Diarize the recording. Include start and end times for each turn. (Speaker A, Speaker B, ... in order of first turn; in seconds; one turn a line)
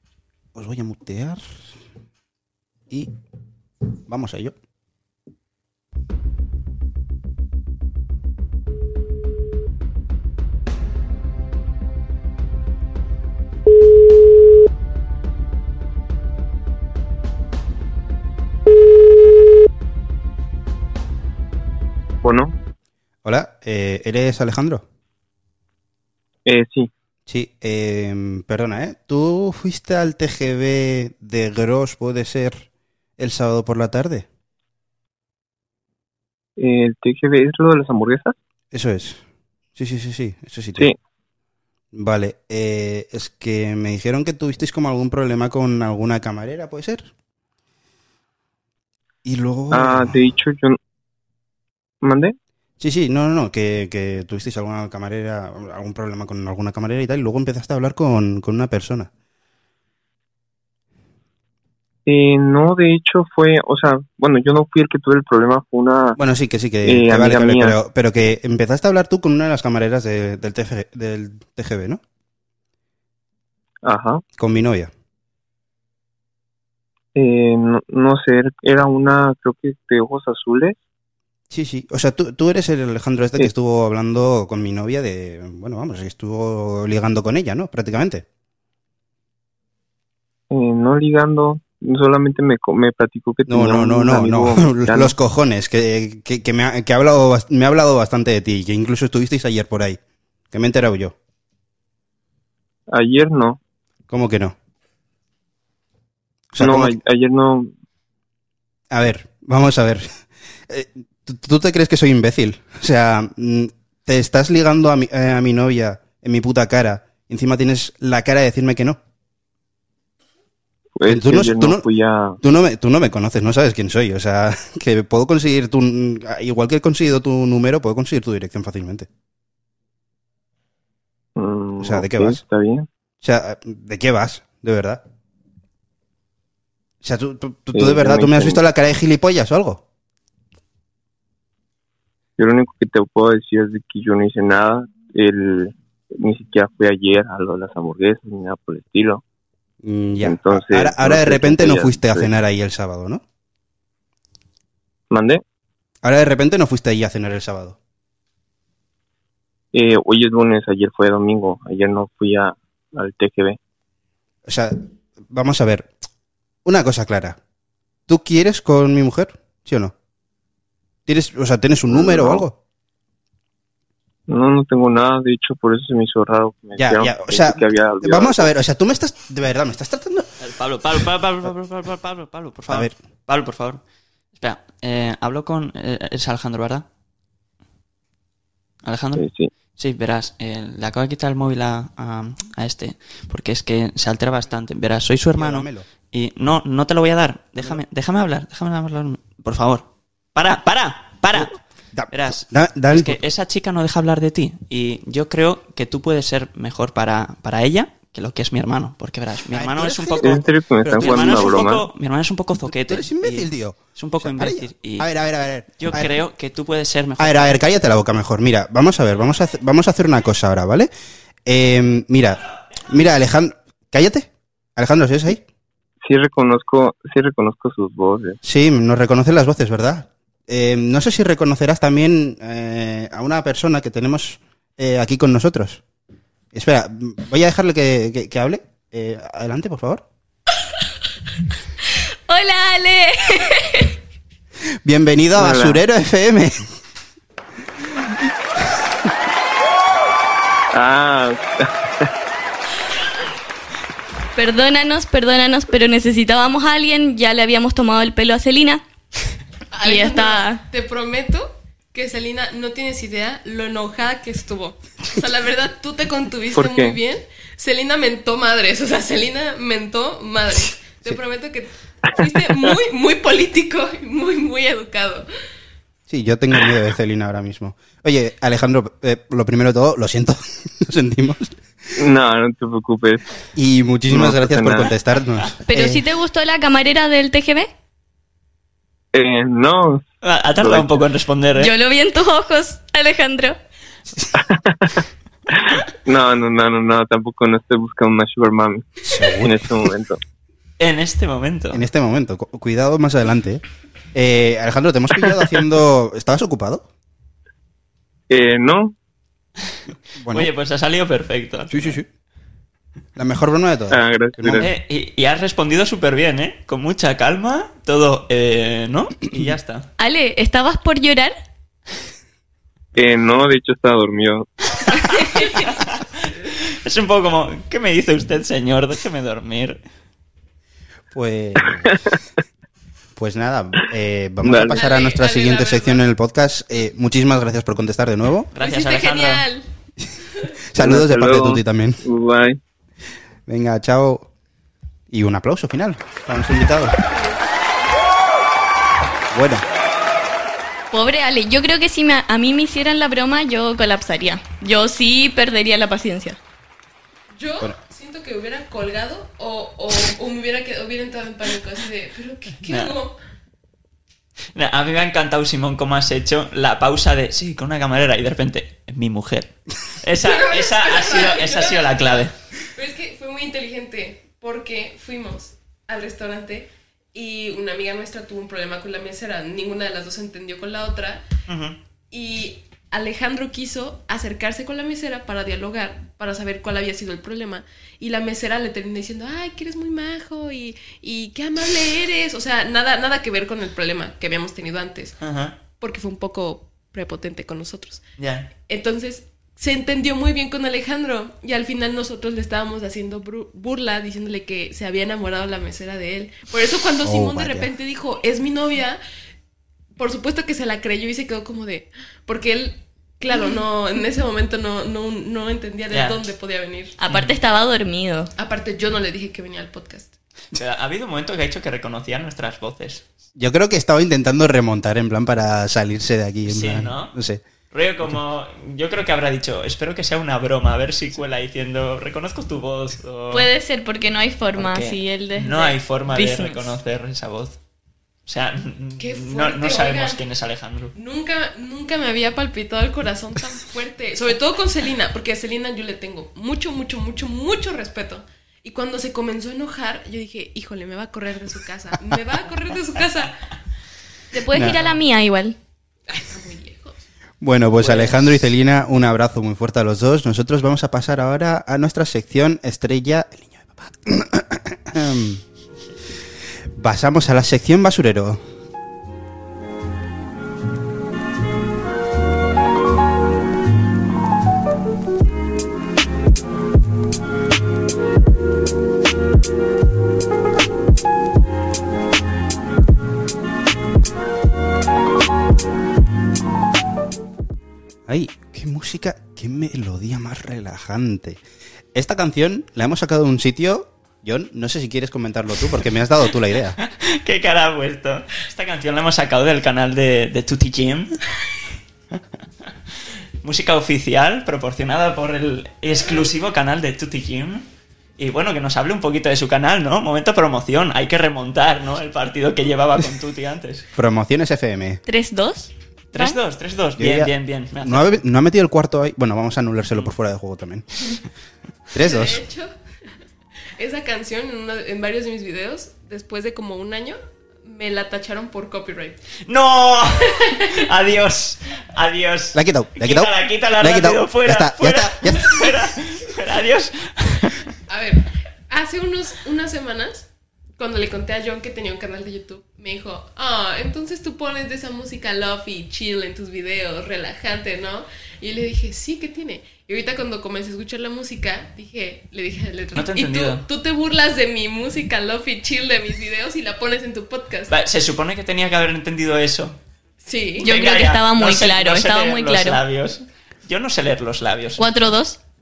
Speaker A: 0.5-1.7
Speaker A: 4.1-4.5
Speaker B: 22.2-22.5
Speaker A: 23.2-24.8
Speaker B: 26.4-26.9
Speaker A: 27.3-32.7
Speaker A: 33.2-34.2
Speaker B: 36.6-38.4
Speaker A: 38.7-39.2
Speaker A: 39.8-40.9
Speaker A: 41.9-47.1
Speaker A: 49.2-50.2
Speaker B: 49.7-50.8
Speaker B: 52.0-52.4
Speaker A: 52.8-59.1
Speaker B: 62.0-66.2
Speaker A: 66.2-72.0
Speaker B: 66.8-67.8
Speaker B: 73.8-74.2
Speaker A: 74.4-74.9
Speaker B: 77.1-80.8
Speaker A: 81.5-88.2
Speaker B: 90.5-95.1
Speaker A: 93.5-100.0
Speaker A: 100.5-101.1
Speaker B: 102.9-103.6
Speaker A: 104.1-104.5
Speaker A: 106.5-107.0
Speaker B: 106.6-107.7
Speaker A: 108.9-110.2
Speaker A: 110.7-119.0
Speaker B: 121.0-122.4
Speaker A: 121.1-121.8
Speaker A: 122.4-129.1
Speaker B: 131.3-132.9
Speaker A: 131.8-132.4
Speaker A: 133.2-135.0
Speaker A: 137.0-139.8
Speaker B: 137.7-138.6
Speaker B: 142.4-149.2
Speaker A: 149.8-153.2
Speaker B: 150.2-152.3
Speaker B: 155.1-155.4
Speaker A: 156.0-157.8
Speaker B: 159.7-163.6
Speaker A: 164.4-164.8
Speaker A: 165.3-165.9
Speaker A: 166.6-167.4
Speaker A: 168.1-169.9
Speaker A: 171.1-172.6
Speaker B: 171.9-172.4
Speaker B: 174.3-178.5
Speaker A: 176.8-180.3
Speaker C: 180.4-183.8
Speaker A: 182.7-182.9
Speaker C: 184.3-186.8
Speaker C: 188.8-201.6
Speaker B: 189.2-189.5
Speaker A: 195.3-195.8
Speaker A: 201.3-203.2
Speaker C: 202.1-215.1
Speaker A: 209.5-211.6
Speaker B: 210.2-211.8
Speaker A: 212.7-216.2
Speaker C: 215.8-217.6
Speaker A: 217.2-220.9
Speaker A: 221.4-225.4
Speaker B: 226.0-228.4
Speaker A: 228.4-235.8
Speaker A: 236.5-240.0
Speaker D: 242.3-243.9
Speaker A: 244.8-246.6
Speaker B: 245.3-245.8
Speaker B: 250.7-252.1
Speaker D: 254.3-258.8
Speaker E: 259.7-275.2
Speaker D: 259.8-260.6
Speaker B: 266.5-267.0
Speaker A: 276.1-281.6
Speaker B: 281.9-283.2
Speaker A: 283.6-286.0
Speaker B: 284.1-284.9
Speaker D: 285.7-287.7
Speaker B: 289.1-291.0
Speaker C: 290.2-291.7
Speaker D: 291.6-293.6
Speaker B: 294.4-300.2
Speaker A: 299.1-299.7
Speaker C: 300.8-301.8
Speaker A: 301.7-303.6
Speaker A: 304.1-306.9
Speaker B: 308.3-308.9
Speaker A: 310.2-310.5
Speaker C: 310.3-312.0
Speaker A: 311.7-312.1
Speaker A: 313.1-314.7
Speaker B: 313.9-314.7
Speaker C: 314.5-319.9
Speaker D: 320.0-321.3
Speaker B: 322.9-324.5
Speaker C: 324.9-329.8
Speaker A: 331.1-332.0
Speaker B: 331.8-332.1
Speaker A: 333.1-338.5
Speaker B: 334.4-334.8
Speaker E: 334.7-336.0
Speaker C: 338.5-339.4
Speaker E: 338.6-339.7
Speaker A: 340.7-342.0
Speaker B: 340.8-342.6
Speaker A: 343.5-344.3
Speaker A: 345.1-346.9
Speaker E: 347.1-347.4
Speaker A: 349.3-349.6
Speaker D: 350.9-356.4
Speaker E: 357.3-363.2
Speaker C: 362.7-362.9
Speaker C: 364.5-372.3
Speaker E: 370.2-381.2
Speaker C: 381.5-381.8
Speaker E: 382.1-395.2
Speaker C: 395.2-395.6
Speaker E: 395.8-398.0
Speaker C: 398.2-398.5
Speaker E: 398.6-409.0
Speaker A: 407.0-407.7
Speaker E: 410.0-416.9
Speaker C: 415.9-416.2
Speaker D: 417.0-418.3
Speaker C: 417.1-417.3
Speaker E: 418.4-420.1
Speaker C: 420.5-423.0
Speaker A: 423.4-427.4
Speaker C: 426.4-427.1
Speaker C: 427.7-433.5
Speaker D: 433.3-436.7
Speaker C: 434.6-437.6
Speaker C: 438.2-440.9
Speaker E: 439.0-440.2
Speaker E: 440.9-453.4
Speaker D: 454.3-455.6
Speaker A: 454.5-454.8
Speaker E: 456.1-457.0
Speaker A: 457.4-465.4
Speaker C: 457.8-458.5
Speaker A: 466.7-468.4
Speaker A: 488.1-491.4
Speaker A: 491.9-496.8
Speaker C: 496.8-501.1
Speaker C: 503.4-507.7
Speaker C: 508.2-513.9
Speaker A: 513.9-515.0
Speaker D: 515.0-516.4
Speaker C: 516.1-518.2
Speaker A: 517.0-521.1
Speaker A: 521.9-522.4
Speaker E: 522.0-522.7
Speaker E: 523.8-529.2
Speaker C: 529.5-537.7
Speaker E: 530.2-530.8
Speaker A: 532.5-535.7
Speaker E: 537.9-557.7
Speaker C: 552.9-553.6
Speaker C: 557.7-559.8
Speaker E: 560.2-560.7
Speaker D: 560.6-562.8
Speaker C: 560.6-564.9
Speaker D: 564.8-565.4